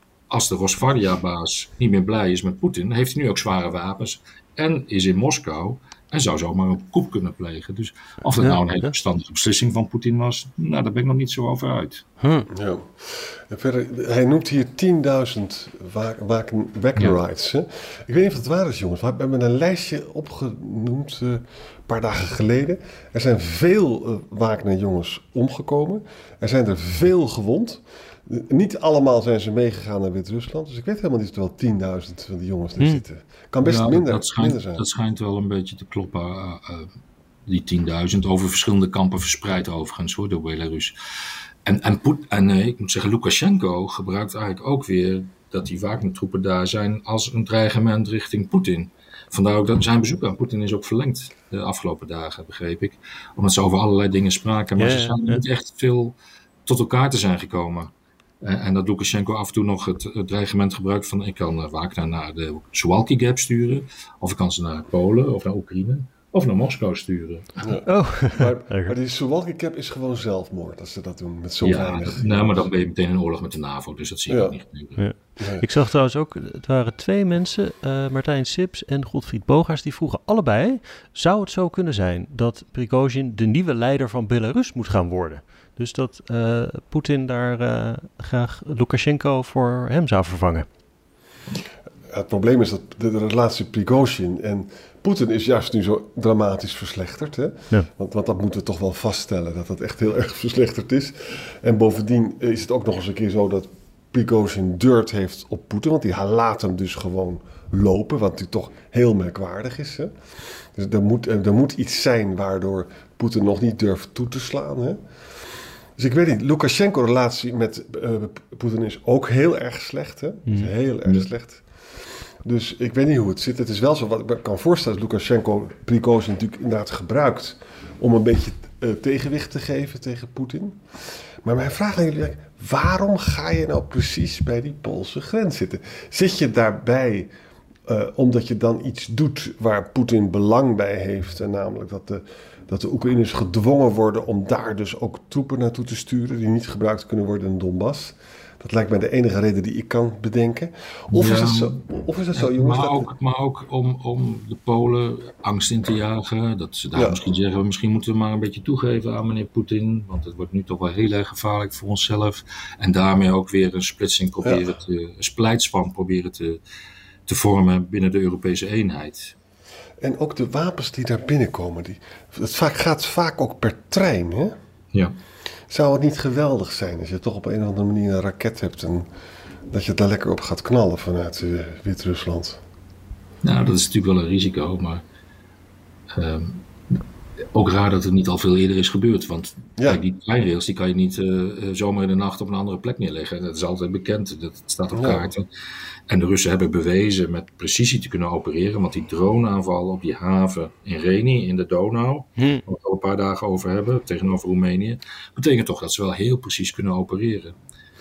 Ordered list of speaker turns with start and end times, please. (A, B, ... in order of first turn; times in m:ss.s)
0:00.3-0:12.0 A
0:08.4-0:08.9 B
0:12.2-0:12.5 B
0:12.5-0:34.8 C
0:33.6-0:36.9 A
0:37.5-0:41.0 A
0:41.7-1:07.6 A
0:54.8-0:55.4 B
1:07.6-1:12.7 C
1:07.9-1:09.0 B
1:11.6-1:15.0 A
1:14.3-1:14.6 C
1:15.0-1:30.7 B
1:15.4-1:15.6 C
1:32.1-1:50.1 C
1:50.7-1:55.0 C
1:56.0-2:01.6 C
2:00.5-2:00.7 B
2:02.4-2:10.8 C
2:11.4-2:17.3 C
2:17.9-2:33.1 C
2:31.1-2:31.8 A
2:32.3-2:46.6 A
2:36.9-2:37.2 C
2:47.3-2:49.4 A
2:50.0-2:54.5 C
2:55.7-2:59.1 C
2:59.7-3:02.6 C
3:03.4-3:05.0 A
3:06.2-3:07.0 A
3:07.5-3:15.5 A
3:14.9-3:15.3 C
3:16.1-3:27.6 A
3:22.4-3:22.6 B